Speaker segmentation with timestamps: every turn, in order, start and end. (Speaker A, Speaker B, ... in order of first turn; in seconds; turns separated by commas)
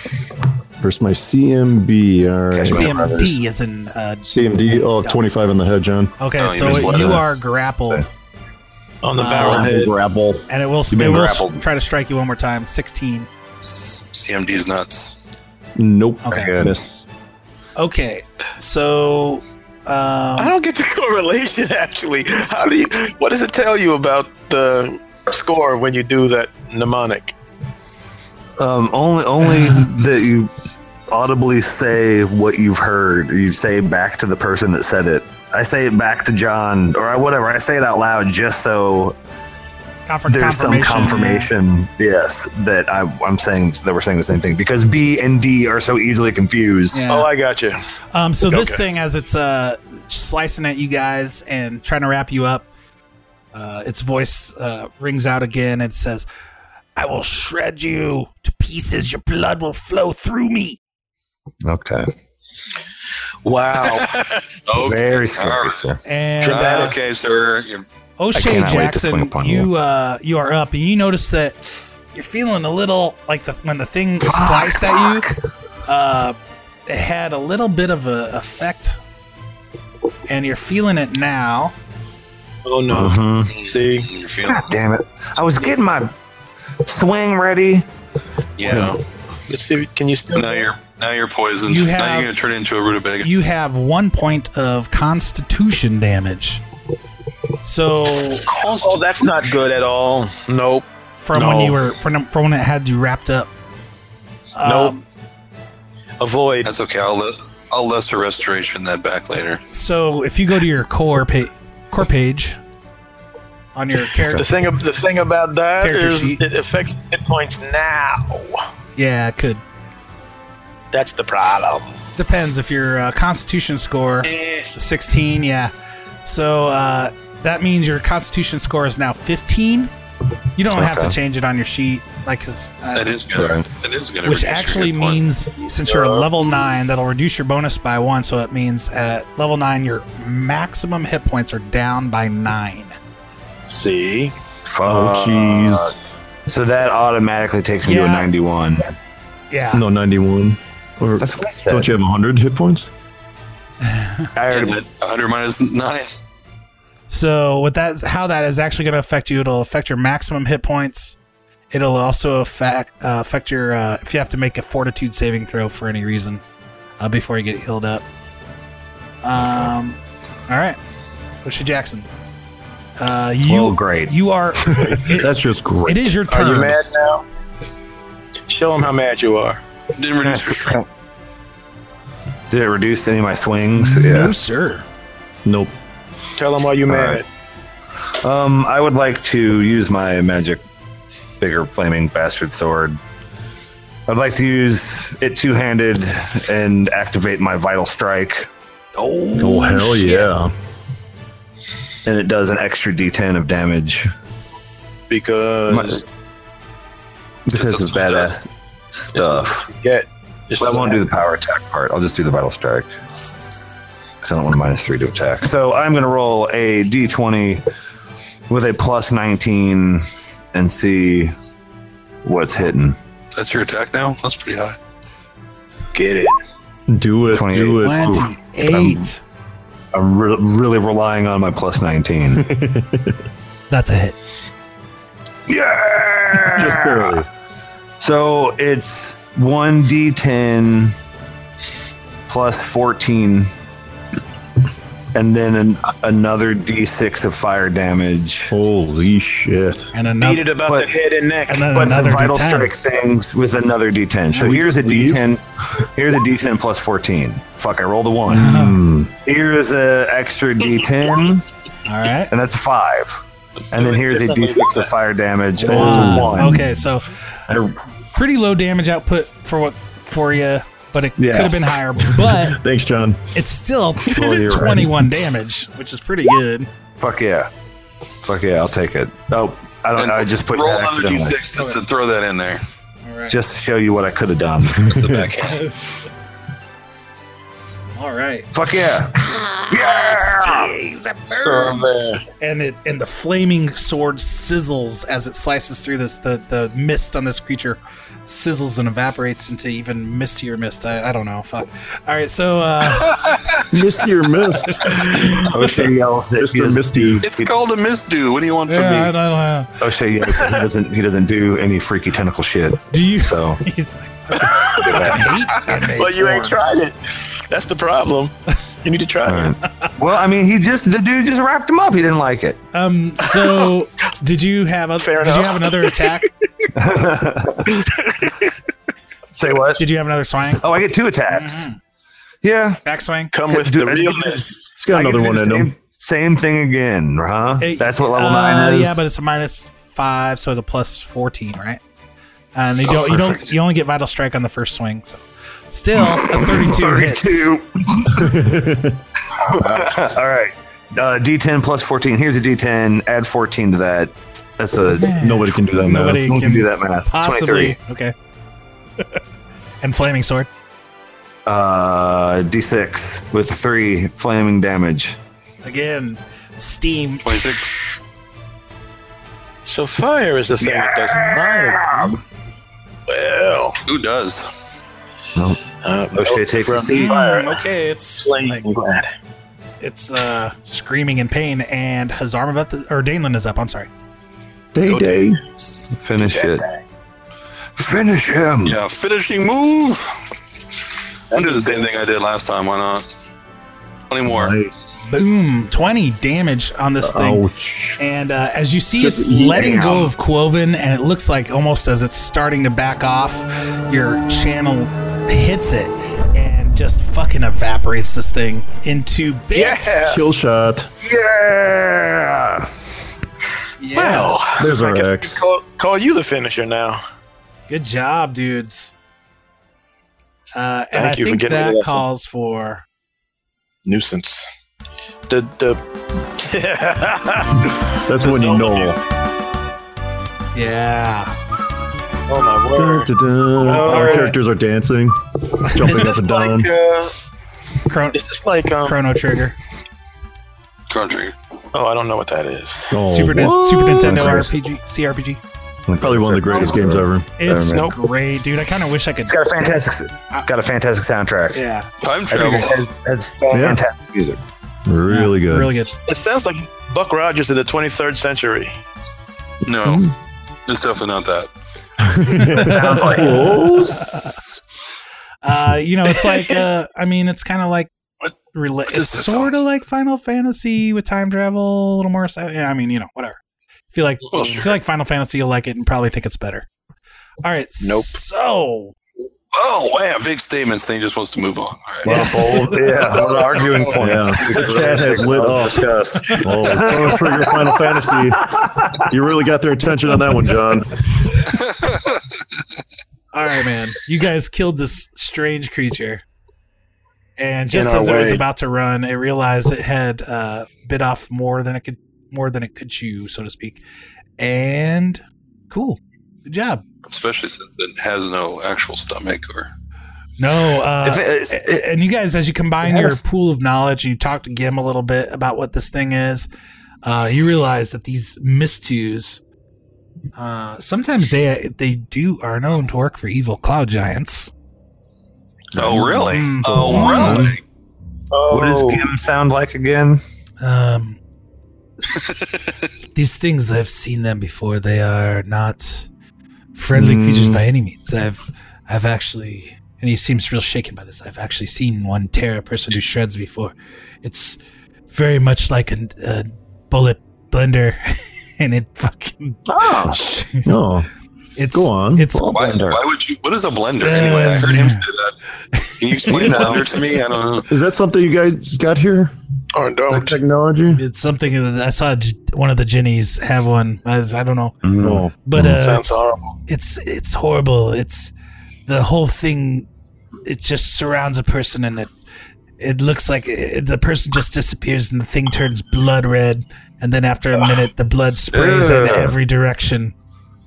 Speaker A: 0.8-3.0, Speaker B: 2.5-3.4, Speaker C: 2.6-5.2, Speaker A: 4.3-6.2, Speaker C: 6.2-8.1, Speaker D: 6.4-7.3, Speaker B: 6.7-8.1, Speaker E: 9.0-9.9, Speaker C: 9.2-9.7, Speaker A: 9.2-11.3, Speaker C: 10.5-13.3, Speaker B: 10.9-11.6, Speaker D: 13.6-15.2, Speaker A: 15.8-17.1, Speaker C: 16.2-16.5, Speaker B: 16.3-16.8, Speaker C: 17.8-20.5, Speaker E: 20.4-27.4, Speaker B: 28.6-30.5, Speaker B: 31.1-39.1, Speaker C: 40.1-41.5, Speaker B: 40.3-47.0, Speaker C: 46.9-47.3, Speaker E: 47.1-47.8, Speaker C: 48.1-52.7, Speaker E: 48.5-48.8, Speaker C: 53.5-56.3, Speaker C: 57.0-60.8, Speaker B: 61.6-62.1, Speaker E: 63.5-64.2, Speaker D: 63.8-65.8, Speaker B: 64.7-66.0, Speaker C: 66.0-67.0, Speaker E: 66.4-67.0, Speaker D: 66.4-67.8, Speaker C: 68.2-75.3, Speaker B: 68.3-69.7, Speaker B: 74.2-75.4, Speaker C: 75.9-76.4, Speaker C: 76.9-79.0, Speaker C: 80.3-81.8, Speaker E: 82.6-84.1, Speaker B: 82.9-83.5, Speaker D: 83.6-84.7, Speaker B: 84.4-86.1, Speaker B: 86.8-87.9, Speaker D: 88.6-89.0, Speaker B: 88.7-88.9, Speaker E: 89.5-90.7, Speaker D: 90.3-93.3, Speaker C: 91.7-92.4, Speaker C: 93.2-96.6, Speaker C: 97.6-98.6, Speaker D: 98.5-99.3, Speaker E: 98.8-101.8, Speaker C: 101.2-103.5, Speaker C: 104.5-105.0, Speaker E: 104.6-104.9, Speaker E: 106.2-106.7, Speaker D: 106.6-109.6, Speaker C: 109.7-112.6, Speaker C: 113.8-114.5, Speaker E: 114.3-118.6, Speaker C: 115.8-116.4, Speaker C: 119.0-119.6, Speaker E: 120.9-121.9, Speaker C: 122.2-125.7, Speaker D: 124.2-124.7, Speaker C: 126.2-129.9, Speaker C: 130.6-133.2, Speaker B: 130.7-131.2, Speaker D: 132.9-135.2, Speaker B: 133.3-133.6, Speaker C: 134.2-143.0, Speaker E: 135.9-136.3, Speaker E: 143.7-144.3, Speaker B: 144.7-146.0, Speaker A: 144.8-146.0, Speaker B: 146.5-148.9, Speaker C: 147.8-148.3, Speaker C: 149.5-149.8, Speaker A: 149.7-152.9, Speaker B: 151.2-151.9, Speaker C: 153.8-154.3, Speaker B: 154.4-154.8, Speaker D: 154.5-156.2, Speaker C: 157.1-161.2, Speaker C: 161.7-166.4, Speaker C: 167.0-168.0, Speaker C: 169.2-170.8, Speaker C: 171.4-172.1, Speaker C: 173.0-175.3, Speaker B: 173.4-174.1, Speaker A: 175.1-176.1, Speaker C: 175.9-176.9, Speaker E: 176.3-177.2, Speaker E: 178.5-179.6, Speaker D: 180.0-180.8, Speaker B: 180.2-180.8, Speaker B: 182.5-184.3, Speaker C: 183.8-184.8, Speaker A: 185.4-185.8, Speaker E: 186.4-187.3, Speaker B: 186.9-187.2, Speaker B: 188.2-190.6, Speaker B: 191.4-193.0, Speaker B: 194.1-198.5, Speaker C: 199.0-200.3, Speaker A: 199.4-200.5, Speaker B: 202.1-204.1, Speaker E: 205.1-206.0, Speaker B: 205.7-206.0, Speaker B: 207.5-209.7, Speaker D: 207.5-208.4, Speaker E: 209.1-211.0, Speaker B: 210.6-212.9, Speaker B: 214.2-217.6, Speaker B: 218.5-221.3, Speaker B: 222.2-223.0, Speaker D: 223.3-224.8, Speaker E: 225.9-226.4, Speaker A: 226.9-228.3, Speaker B: 227.3-229.0, Speaker C: 227.7-229.2, Speaker B: 229.9-232.5, Speaker A: 232.3-233.2, Speaker C: 233.7-234.2, Speaker B: 235.5-237.2, Speaker A: 236.5-237.3, Speaker B: 238.0-240.9, Speaker B: 242.3-243.5, Speaker B: 245.1-248.5, Speaker A: 248.5-249.9, Speaker C: 249.9-250.5, Speaker E: 250.2-251.7, Speaker B: 250.6-250.9, Speaker C: 251.5-252.8, Speaker B: 251.7-258.6, Speaker A: 254.4-255.2, Speaker A: 258.3-259.1, Speaker C: 258.3-258.8, Speaker B: 259.2-261.4, Speaker C: 261.9-262.3, Speaker B: 262.3-263.2, Speaker E: 263.7-264.9, Speaker B: 263.7-266.6, Speaker C: 265.6-267.1, Speaker A: 265.7-266.7, Speaker B: 267.5-267.8, Speaker C: 268.1-272.6, Speaker B: 271.2-271.8, Speaker A: 272.2-273.2, Speaker C: 273.3-276.7, Speaker B: 274.1-274.9, Speaker A: 274.2-274.8, Speaker B: 277.0-277.5, Speaker B: 278.2-281.4, Speaker D: 280.0-282.6, Speaker C: 281.5-281.8, Speaker C: 283.1-283.4, Speaker B: 283.3-285.1, Speaker D: 284.8-285.7, Speaker C: 288.0-288.5, Speaker B: 288.5-289.1, Speaker C: 289.1-303.3, Speaker B: 289.7-290.8, Speaker E: 291.4-292.2, Speaker D: 303.0-303.6, Speaker A: 303.7-307.2, Speaker C: 304.8-305.4, Speaker B: 305.4-307.6, Speaker D: 307.2-309.1, Speaker C: 308.7-309.7, Speaker B: 309.8-313.6, Speaker C: 312.9-316.6, Speaker E: 314.4-315.1, Speaker B: 314.5-315.3, Speaker E: 315.9-319.6, Speaker B: 319.2-322.6, Speaker C: 322.7-326.3, Speaker E: 325.0-326.1, Speaker B: 326.8-328.4, Speaker B: 329.3-329.8, Speaker C: 329.8-330.6, Speaker B: 330.6-331.7, Speaker C: 331.3-331.8, Speaker B: 332.4-332.8, Speaker C: 332.9-333.3, Speaker E: 333.3-334.6, Speaker B: 333.5-339.0, Speaker A: 334.8-335.7, Speaker C: 337.6-341.8, Speaker C: 342.6-347.5, Speaker B: 343.0-343.4, Speaker B: 346.0-348.4, Speaker A: 348.1-349.0, Speaker B: 349.4-355.1, Speaker C: 354.9-358.1, Speaker A: 355.1-356.4, Speaker B: 355.9-357.8, Speaker C: 359.8-360.5, Speaker B: 361.5-365.2, Speaker C: 365.6-367.6, Speaker D: 367.2-368.0, Speaker E: 369.6-372.2, Speaker B: 370.6-372.2, Speaker E: 373.1-373.8, Speaker D: 373.9-374.6, Speaker B: 375.4-375.6, Speaker E: 375.8-377.7, Speaker B: 376.1-377.1, Speaker C: 376.9-378.6, Speaker E: 378.2-379.1, Speaker C: 379.8-383.9, Speaker A: 384.7-385.4, Speaker E: 384.9-385.4, Speaker B: 385.9-386.6, Speaker E: 386.2-386.8, Speaker B: 387.8-388.8, Speaker D: 388.6-390.1, Speaker D: 391.3-393.1, Speaker E: 391.3-391.9, Speaker D: 394.1-394.6, Speaker A: 394.3-394.7, Speaker C: 395.1-397.4, Speaker A: 397.0-398.0, Speaker C: 398.0-410.5, Speaker A: 399.0-399.9, Speaker B: 399.5-400.1, Speaker E: 409.5-410.3, Speaker A: 410.1-410.9, Speaker B: 411.0-412.7, Speaker C: 413.8-414.4, Speaker E: 413.9-417.0, Speaker A: 414.6-415.4, Speaker C: 417.7-418.9, Speaker C: 420.6-422.8, Speaker E: 420.9-422.0, Speaker E: 423.9-424.5, Speaker E: 425.3-425.8, Speaker E: 426.4-429.0, Speaker A: 427.9-429.0, Speaker C: 430.5-431.4, Speaker E: 432.3-433.1, Speaker A: 432.7-436.7, Speaker E: 433.6-434.3, Speaker C: 433.8-434.3, Speaker E: 435.8-437.1, Speaker C: 437.9-438.2, Speaker E: 438.1-439.0, Speaker C: 438.8-439.6, Speaker D: 440.9-441.4, Speaker E: 441.7-443.0, Speaker A: 442.9-444.5, Speaker C: 443.1-445.4, Speaker B: 445.9-447.9, Speaker A: 446.0-447.3, Speaker C: 447.4-449.4, Speaker E: 447.7-448.0, Speaker B: 449.3-451.6, Speaker C: 451.5-451.9, Speaker D: 452.0-452.8, Speaker B: 452.3-454.4, Speaker A: 453.5-453.8, Speaker A: 454.9-455.7, Speaker C: 455.1-455.9, Speaker E: 456.1-458.8, Speaker D: 459.6-460.1, Speaker A: 459.9-460.1, Speaker D: 460.6-461.5, Speaker A: 462.0-464.4, Speaker C: 462.4-464.4, Speaker B: 462.6-463.2, Speaker C: 465.4-467.9, Speaker C: 468.5-473.4, Speaker D: 468.9-469.5, Speaker C: 473.9-476.7, Speaker D: 474.3-474.7, Speaker C: 477.4-478.9, Speaker E: 477.8-478.2, Speaker D: 479.5-482.3, Speaker B: 482.1-489.0, Speaker C: 482.1-482.9, Speaker D: 483.6-484.0, Speaker A: 484.0-488.4, Speaker A: 489.0-491.1, Speaker D: 491.8-492.1, Speaker C: 493.3-496.2, Speaker C: 497.4-503.8, Speaker E: 497.7-498.4, Speaker C: 504.4-506.8, Speaker D: 507.1-509.7, Speaker C: 510.4-516.5, Speaker B: 511.0-511.9, Speaker B: 512.8-513.2, Speaker C: 517.0-519.4, Speaker C: 520.4-524.5, Speaker B: 525.8-527.5, Speaker D: 525.8-527.6, Speaker C: 526.2-527.5, Speaker A: 526.7-527.6, Speaker E: 528.3-529.1, Speaker B: 528.5-530.2, Speaker C: 530.6-531.2, Speaker C: 532.0-532.4, Speaker D: 532.1-532.6, Speaker C: 533.1-536.1, Speaker C: 536.7-544.6, Speaker A: 536.9-537.6, Speaker C: 545.1-550.7, Speaker B: 549.7-550.2, Speaker A: 550.6-551.1, Speaker C: 551.6-552.5, Speaker A: 551.7-552.6, Speaker B: 552.5-553.1, Speaker D: 552.5-555.4, Speaker C: 554.0-555.0, Speaker C: 555.8-556.7, Speaker D: 556.0-557.7, Speaker B: 556.3-556.9, Speaker A: 557.7-559.3, Speaker E: 559.7-560.4, Speaker A: 560.1-561.0, Speaker C: 561.0-564.8, Speaker B: 564.8-565.8, Speaker A: 565.0-565.4, Speaker C: 565.4-568.3, Speaker E: 565.6-566.6, Speaker C: 568.9-569.9, Speaker C: 570.5-572.1, Speaker C: 572.8-580.1, Speaker B: 578.5-579.4